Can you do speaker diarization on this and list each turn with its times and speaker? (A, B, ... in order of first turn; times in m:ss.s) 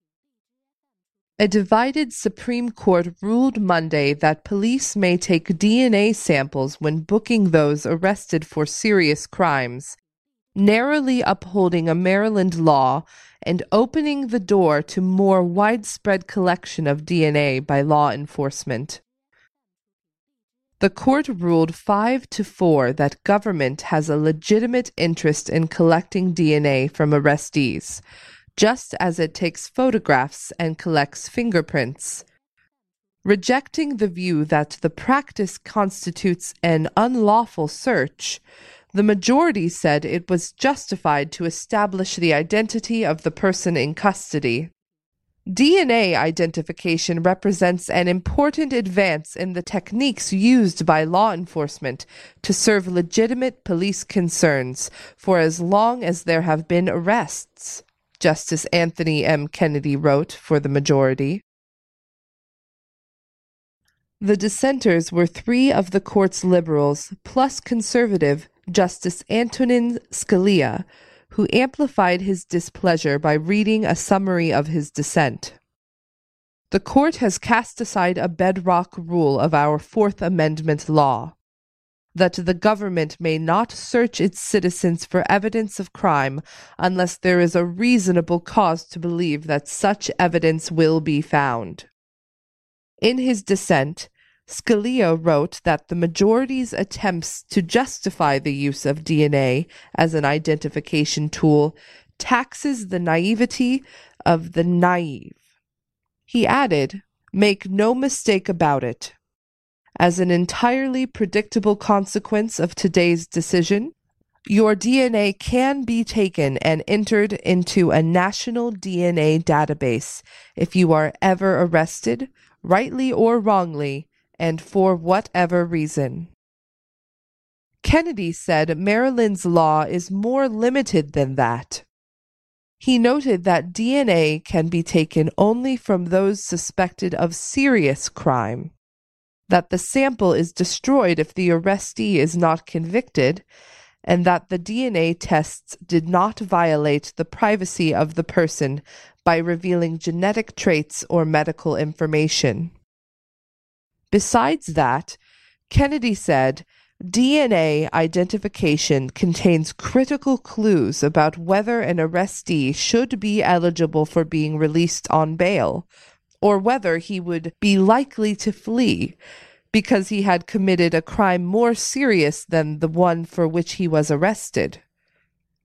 0:01.4-0:09.9 A
0:10.5-0:19.0 A
0:20.8-0:28.0 A
0:28.6-0:32.2 A
0:33.2-0:38.4 A
0:38.9-0:44.7 A
0:45.5-1:01.4 A
1:04.2-1:15.6 A
1:16.7-1:21.4 A
1:22.1-1:31.9 A
1:33.0-1:45.4 A
1:46.3-1:49.2 A
1:50.0-1:53.9 A
1:54.5-2:06.3 A
2:07.8-2:11.8 A
2:12.8-2:18.7 A
2:19.5-2:23.4 A
2:24.0-2:32.7 A
2:34.1-2:45.9 A
2:46.4-2:49.2 A
2:49.7-2:54.8 A